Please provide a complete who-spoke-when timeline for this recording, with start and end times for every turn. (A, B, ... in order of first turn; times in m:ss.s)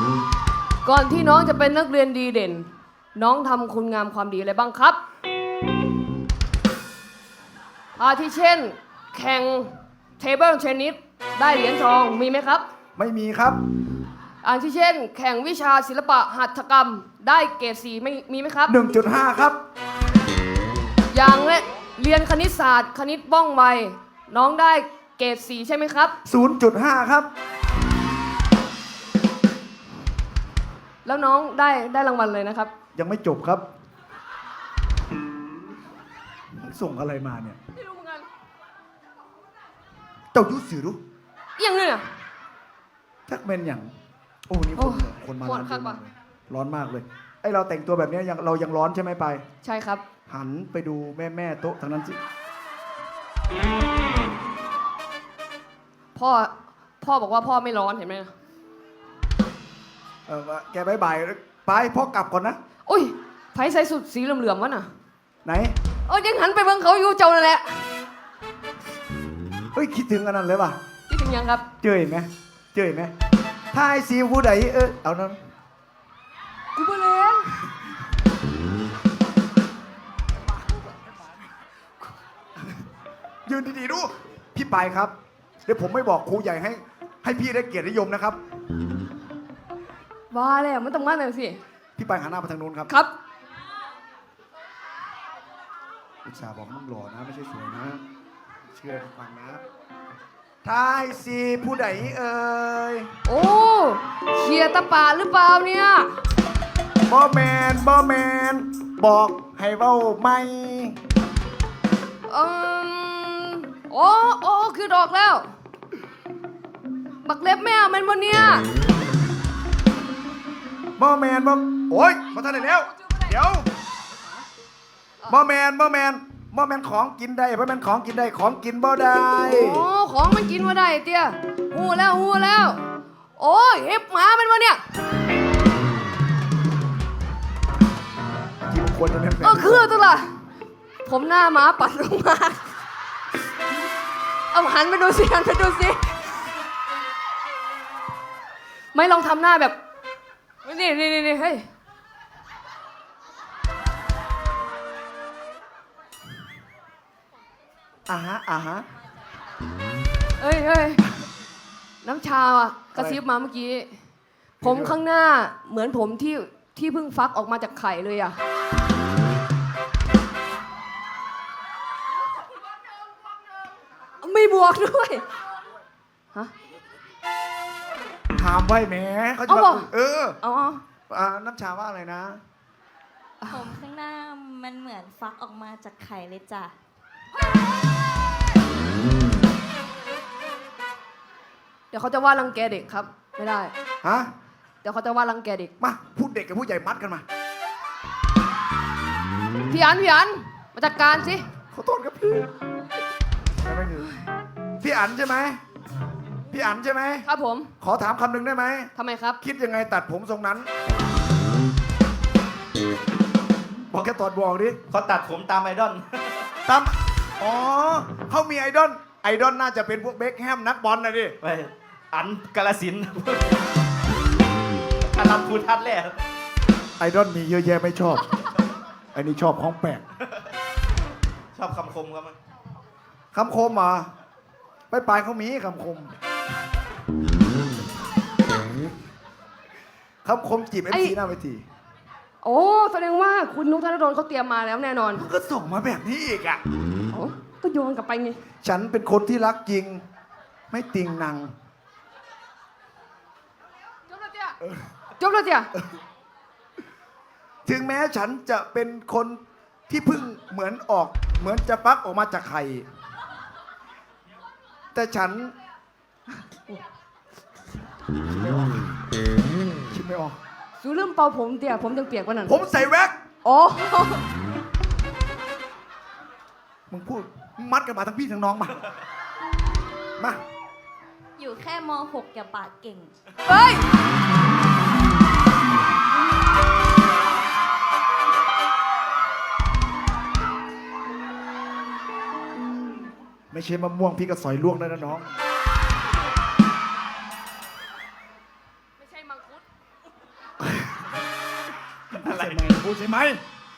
0:00.8-0:05.0 A
0:08.0-0:12.6 A
0:13.0-0:13.6 B
0:14.4-0:18.8 A
0:18.7-0:19.6 B
0:21.1-0:26.2 A
0:26.2-0:27.3 B
0:31.0-0:32.7 A
0:33.0-0:33.6 B
0:36.6-0:37.6 B
0:37.8-0:38.3 A
0:40.3-0:41.0 B
0:41.6-0:42.1 A
0:43.3-0:43.9 B
0:44.5-0:49.4 B
0:44.8-0:46.0 A
0:49.6-0:50.0 A
0:50.3-0:52.2 B
0:56.2-0:58.3 A
1:00.3-1:02.6 B
1:02.9-1:04.9 A
1:05.4-1:05.8 B
1:06.1-1:07.9 A
1:09.7-1:10.8 B
1:11.1-1:11.7 A
1:11.8-1:13.1 B
1:13.7-1:15.4 B
1:16.8-1:17.5 A
1:20.3-1:21.4 B
1:23.5-1:25.1 B
1:25.7-1:28.4 B
1:30.3-1:31.6 A
1:32.0-1:32.9 B
1:36.2-1:38.0 B
1:38.7-1:39.6 B
1:40.6-1:43.1 B
1:43.3-1:46.2 A
1:47.1-1:51.0 B
1:52.3-1:55.5 A
1:57.2-1:58.7 A
2:01.0-2:03.7 B
2:02.5-2:03.4 A
2:05.3-2:09.9 B
2:09.4-2:12.8 A
2:13.4-2:14.8 A
2:18.7-2:19.9 B
2:19.4-2:20.3 A
2:21.0-2:22.7 A
2:24.5-2:26.2 A
2:28.9-2:29.8 A
2:30.6-2:31.7 A
2:38.1-2:38.9 B
2:40.4-2:41.0 A
2:42.0-2:43.9 A
2:43.0-2:43.2 B
2:44.6-2:45.0 B
2:44.6-2:48.4 A
2:54.2-2:55.3 A
2:58.4-3:00.4 B
2:59.5-2:59.9 A
3:00.4-3:00.8 A
3:01.1-3:02.4 B
3:03.5-3:06.7 C
3:11.9-3:13.7 A
3:14.0-3:14.3 B
3:14.8-3:15.7 A
3:15.8-3:17.2 B
3:19.7-3:21.4 A
3:21.7-3:22.5 B
3:23.6-3:24.1 B
3:24.8-3:25.6 B
3:26.5-3:27.3 B
3:27.3-3:27.7 A
3:27.8-3:30.7 B
3:29.0-3:29.4 A
3:33.9-3:34.8 B
3:34.9-3:36.4 D
3:36.7-3:41.4 B
3:41.4-3:43.6 D
3:45.0-3:46.2 D
3:47.0-3:48.2 B
3:49.1-3:50.0 B
3:51.5-3:52.4 D
3:53.3-3:54.1 B
3:54.9-3:56.2 B
4:00.2-4:01.6 B
4:00.9-4:01.2 A
4:02.4-4:05.3 A
4:05.2-4:06.6 B
4:07.1-4:08.4 A
4:08.6-4:10.0 B
4:10.7-4:11.5 B
4:14.1-4:14.6 A
4:15.2-4:15.7 A
4:17.7-4:22.9 B
4:24.9-4:25.5 B
4:29.9-4:30.4 B
4:30.8-4:32.6 A
4:32.5-4:33.2 B
4:33.4-4:34.2 A
4:36.9-4:38.8 B
4:41.4-4:43.1 C
4:43.5-4:43.9 A
4:53.5-4:55.3 B
4:59.0-4:59.6 A
5:02.1-5:03.4 B
5:02.2-5:02.8 D